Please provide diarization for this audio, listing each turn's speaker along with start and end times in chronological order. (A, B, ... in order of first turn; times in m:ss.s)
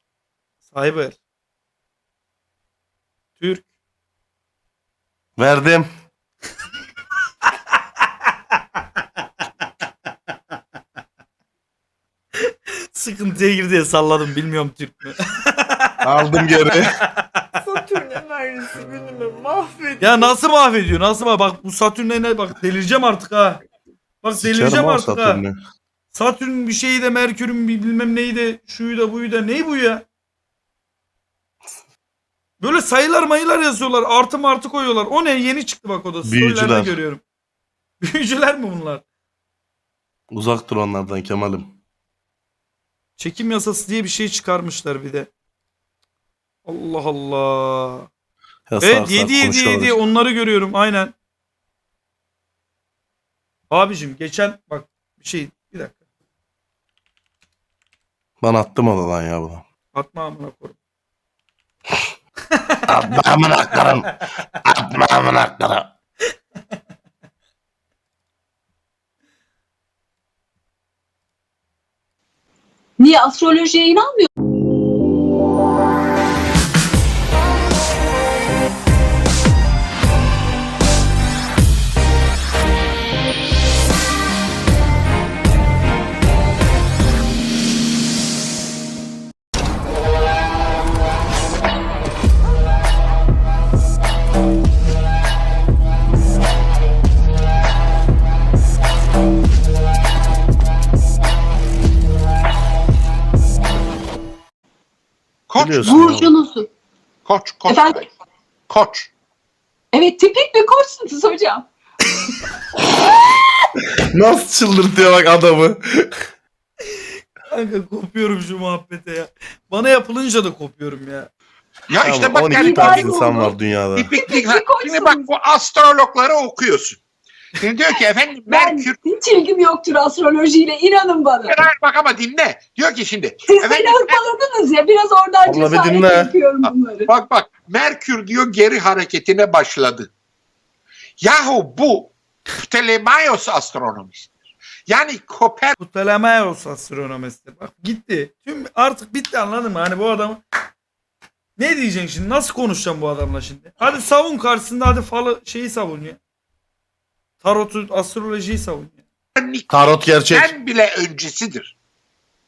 0:00.7-0:01.2 A
0:03.4-0:03.6 A
0:05.4-0:05.9 B
0:12.9-0:16.0 A
0:16.0-0:16.9 B
0:17.2-0:17.4 A
0:17.7-0:20.3 C
0:20.0-0:23.6 A
0:24.2-0:25.4 A
0:24.3-0:25.6 B
0:26.1-0:30.0 A
0:32.6-0:37.2 A
0:36.2-0:37.0 B
0:38.0-0:39.0 A
0:40.3-0:41.7 B
0:43.2-0:45.3 A
0:46.6-0:48.1 A
0:48.7-0:50.0 B
0:48.8-0:51.1 A
0:53.7-0:56.0 A
0:58.4-0:59.6 B
0:59.9-1:00.8 A
1:02.9-1:04.1 B
1:04.6-1:05.9 B
1:13.0-1:14.3 D
1:45.5-1:45.9 E
1:45.6-1:46.3 B
1:45.8-1:46.7 D
1:47.2-1:48.1 E
1:47.7-1:48.0 D
1:48.7-1:49.1 E
1:49.9-1:51.6 D
1:54.1-1:56.2 B
1:57.5-2:01.3 A
2:01.9-2:03.1 E
2:02.0-2:04.1 B
2:02.6-2:03.5 D
2:04.0-2:07.0 E
2:04.2-2:05.3 D
2:07.6-2:09.0 E
2:08.5-2:11.6 D
2:11.5-2:14.2 E
2:13.5-2:17.1 D
2:15.4-2:16.3 B
2:17.1-2:20.1 E
2:21.2-2:24.3 E
2:24.9-2:25.8 E
2:25.8-2:30.4 A
2:31.6-2:36.2 A
2:37.4-2:39.0 A
2:39.4-2:41.7 E
2:39.7-2:40.5 B